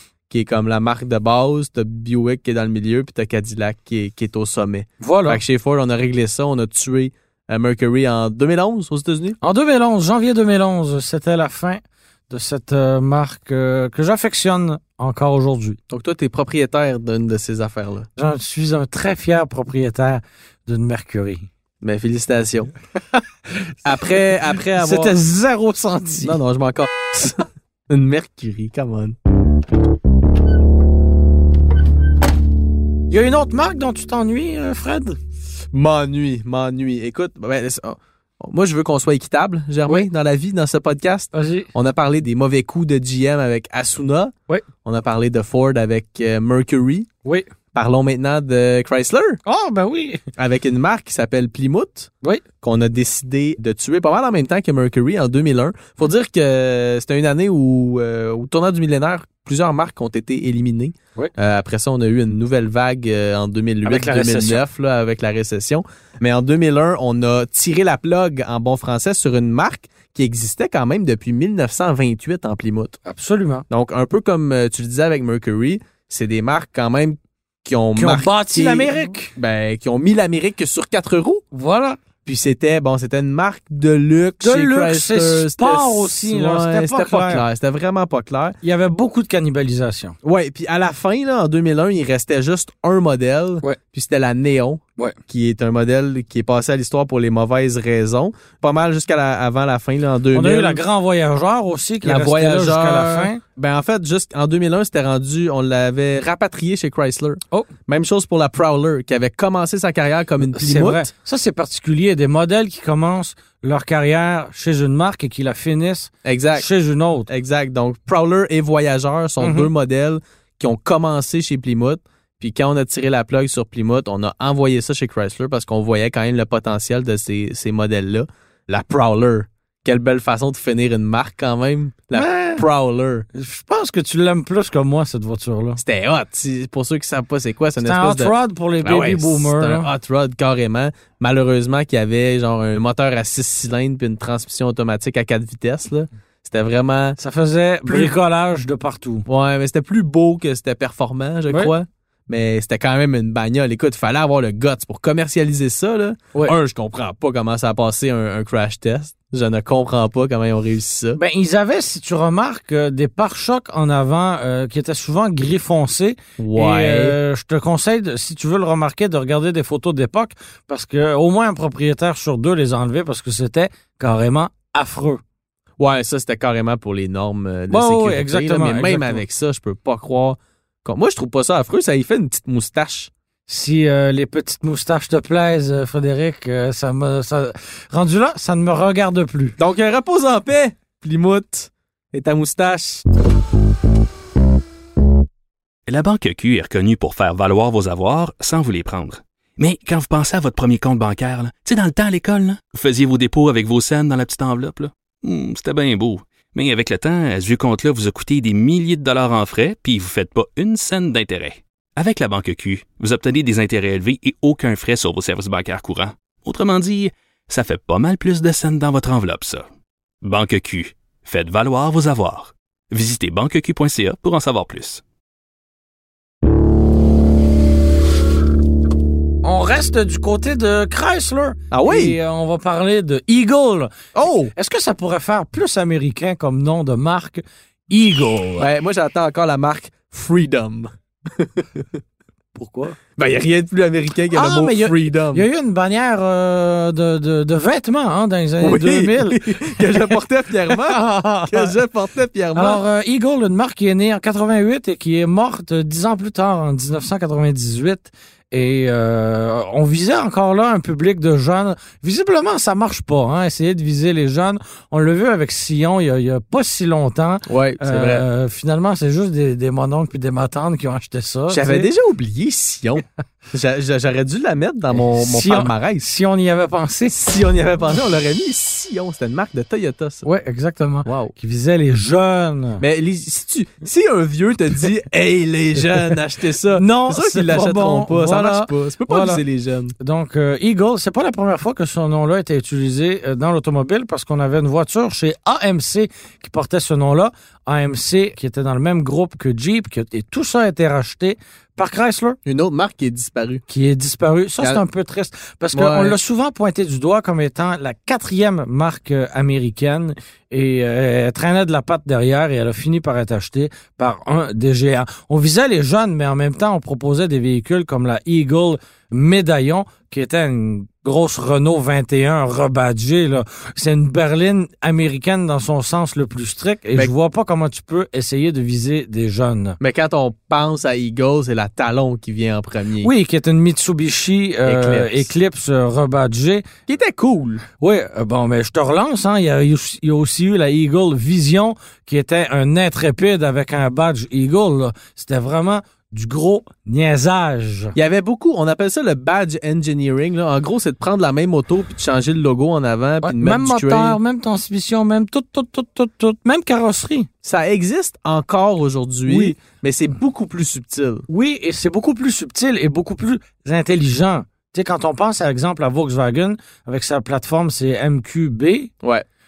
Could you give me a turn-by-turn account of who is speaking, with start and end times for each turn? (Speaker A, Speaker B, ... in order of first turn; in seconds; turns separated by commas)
Speaker A: 0.3-9.4, Speaker B: 5.0-5.4, Speaker B: 9.4-15.8, Speaker A: 15.9-18.1, Speaker B: 18.2-21.5, Speaker A: 21.8-22.7, Speaker A: 23.9-25.2, Speaker B: 24.7-26.4, Speaker A: 26.2-29.2, Speaker B: 33.1-35.2, Speaker A: 35.7-44.3, Speaker B: 41.3-41.7, Speaker A: 44.8-47.1, Speaker A: 47.7-49.4, Speaker B: 49.5-50.2, Speaker A: 50.4-73.0, Speaker B: 63.9-64.6, Speaker B: 73.1-73.7, Speaker A: 73.7-81.5, Speaker B: 78.0-79.3, Speaker B: 81.5-82.0, Speaker A: 82.2-88.6, Speaker B: 84.4-87.5, Speaker B: 88.6-90.2, Speaker A: 90.2-100.8, Speaker B: 100.3-103.4, Speaker A: 102.0-111.1, Speaker B: 110.5-117.3, Speaker A: 116.2-116.7, Speaker A: 117.3-133.3, Speaker B: 119.4-119.7, Speaker B: 132.2-132.7, Speaker B: 133.3-135.8, Speaker A: 135.8-147.2, Speaker B: 137.8-139.9, Speaker B: 147.2-149.3, Speaker A: 147.9-148.1, Speaker A: 149.3-161.2, Speaker B: 161.2-175.2, Speaker A: 166.4-167.2, Speaker A: 175.8-183.1, Speaker B: 177.7-179.2, Speaker B: 183.5-189.6, Speaker A: 189.6-193.0, Speaker C: 195.9-219.7, Speaker C: 220.2-225.0, Speaker B: 229.4-238.7, Speaker A: 231.7-232.2, Speaker A: 234.2-234.5, Speaker A: 238.6-241.9, Speaker B: 242.6-243.0, Speaker A: 243.2-245.4, Speaker B: 244.3-250.1, Speaker A: 248.6-252.8, Speaker B: 250.7-251.8, Speaker B: 252.6-271.9, Speaker A: 267.5-268.2, Speaker A: 271.5-276.0, Speaker B: 274.9-277.1, Speaker A: 277.1-280.3, Speaker B: 280.2-282.8, Speaker A: 281.1-281.3, Speaker A: 282.8-289.9, Speaker B: 286.7-289.4, Speaker B: 290.0-302.4, Speaker A: 302.5-303.6, Speaker B: 303.7-329.8, Speaker A: 305.7-306.2, Speaker A: 329.8-333.1, Speaker B: 333.0-336.6, Speaker A: 334.7-335.3, Speaker A: 336.9-337.6, Speaker B: 337.8-348.0, Speaker A: 348.0-354.2, Speaker B: 353.2-357.3, Speaker A: 357.4-361.3, Speaker B: 359.3-359.6, Speaker B: 361.3-368.9